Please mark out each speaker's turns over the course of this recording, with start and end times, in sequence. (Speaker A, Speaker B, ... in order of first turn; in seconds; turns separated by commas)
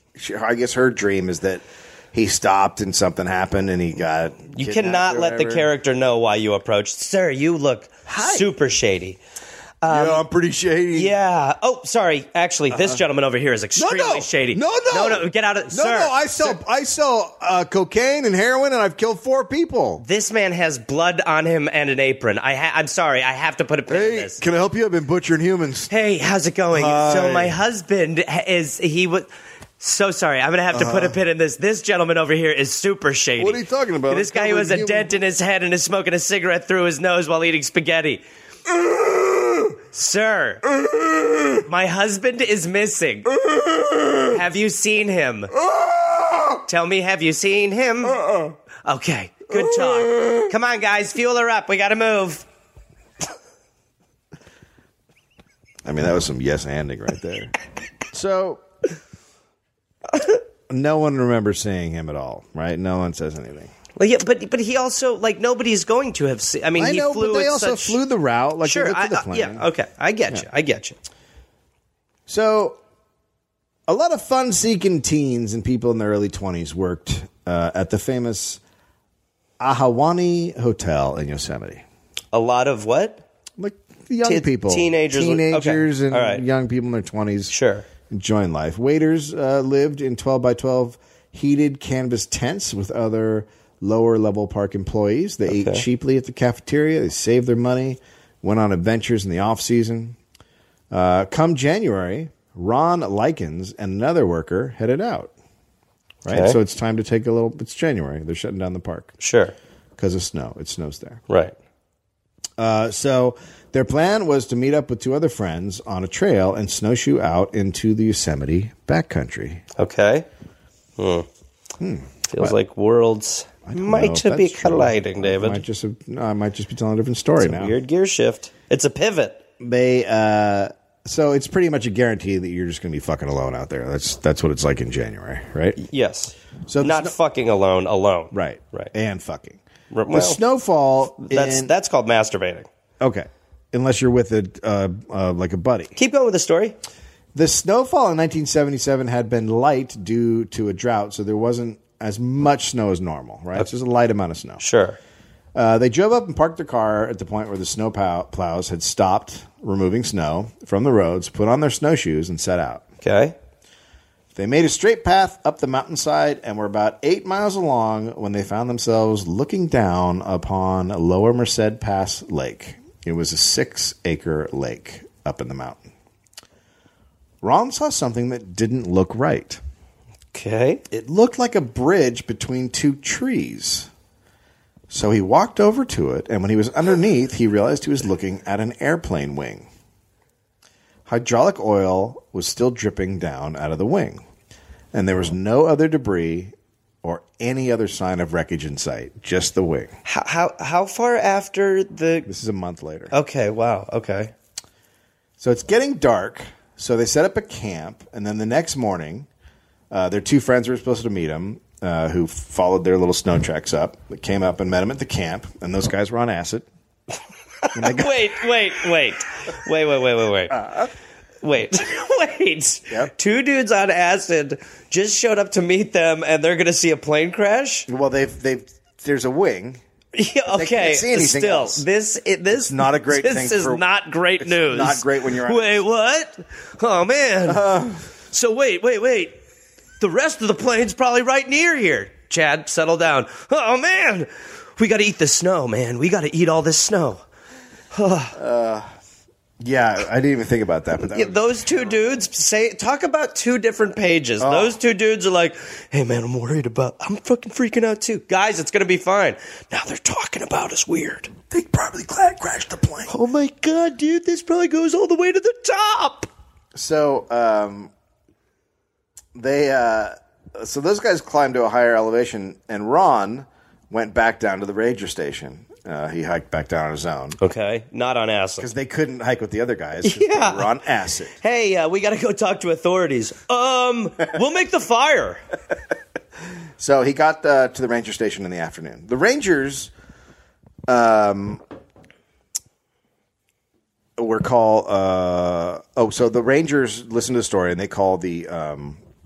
Speaker A: 0.1-5.7, Speaker B: 4.5-9.2, Speaker A: 8.1-8.5, Speaker B: 9.8-10.2, Speaker A: 9.9-11.1, Speaker B: 10.9-16.6, Speaker A: 12.7-13.0, Speaker A: 13.8-20.0, Speaker B: 20.0-24.4, Speaker A: 23.9-25.9, Speaker B: 25.9-29.3, Speaker A: 26.7-27.6, Speaker B: 29.8-38.2, Speaker A: 30.7-31.2, Speaker A: 33.4-35.1, Speaker A: 38.7-39.7, Speaker B: 39.9-40.6, Speaker A: 40.7-41.6, Speaker B: 41.6-43.3, Speaker A: 43.4-44.4, Speaker B: 44.2-45.5, Speaker A: 45.6-46.6, Speaker B: 46.6-48.2, Speaker A: 48.1-48.5, Speaker B: 48.8-52.5, Speaker A: 49.5-50.5, Speaker A: 55.8-57.5, Speaker A: 58.1-58.6, Speaker A: 60.7-63.7, Speaker B: 64.0-68.0, Speaker A: 66.8-69.7, Speaker B: 68.6-71.0, Speaker A: 72.3-72.8, Speaker A: 73.9-78.6, Speaker A: 79.6-81.8, Speaker B: 82.3-83.2, Speaker A: 83.6-87.5, Speaker B: 84.2-86.4, Speaker B: 87.5-87.9, Speaker A: 88.1-100.2, Speaker B: 95.5-95.8, Speaker A: 100.9-105.3, Speaker A: 106.2-109.1, Speaker B: 106.3-106.6, Speaker B: 109.2-109.5, Speaker A: 110.0-111.2, Speaker B: 111.3-111.5, Speaker A: 112.6-119.6, Speaker B: 119.8-120.3, Speaker B: 121.0-121.2, Speaker A: 121.8-122.5, Speaker B: 122.3-125.6, Speaker A: 123.6-127.7, Speaker B: 127.4-129.4, Speaker A: 129.6-135.8, Speaker B: 135.8-138.9, Speaker A: 136.7-137.1, Speaker A: 138.3-141.7, Speaker B: 139.9-140.4, Speaker B: 141.2-142.7, Speaker A: 143.0-145.9, Speaker B: 145.9-146.8, Speaker A: 147.3-154.6, Speaker B: 154.6-155.0, Speaker A: 155.5-162.8, Speaker B: 163.0-163.3, Speaker A: 164.3-175.9, Speaker A: 177.4-179.6, Speaker B: 180.3-180.8, Speaker A: 180.9-183.9, Speaker A: 184.9-189.7, Speaker A: 191.1-194.2, Speaker A: 194.9-199.9, Speaker B: 200.0-202.3, Speaker A: 202.3-203.1, Speaker B: 203.1-204.3, Speaker A: 205.4-209.3, Speaker A: 209.9-216.7, Speaker B: 217.6-220.6, Speaker A: 217.7-218.4, Speaker A: 220.5-220.9, Speaker B: 221.4-227.9, Speaker A: 227.9-229.8, Speaker B: 230.1-237.6, Speaker A: 230.5-231.8, Speaker A: 232.7-233.8, Speaker A: 234.4-235.8, Speaker A: 237.5-238.1, Speaker B: 238.3-239.3, Speaker B: 240.0-247.2, Speaker B: 247.9-248.3, Speaker A: 248.3-248.9, Speaker A: 249.6-252.0, Speaker B: 251.1-261.3, Speaker A: 254.4-254.8, Speaker A: 261.5-263.1, Speaker B: 263.1-266.3, Speaker A: 266.7-267.9, Speaker A: 269.3-277.4, Speaker B: 277.4-278.7, Speaker A: 278.6-281.3, Speaker B: 280.0-280.7, Speaker B: 281.4-285.4, Speaker A: 286.8-289.9, Speaker A: 290.9-291.6, Speaker A: 294.2-299.0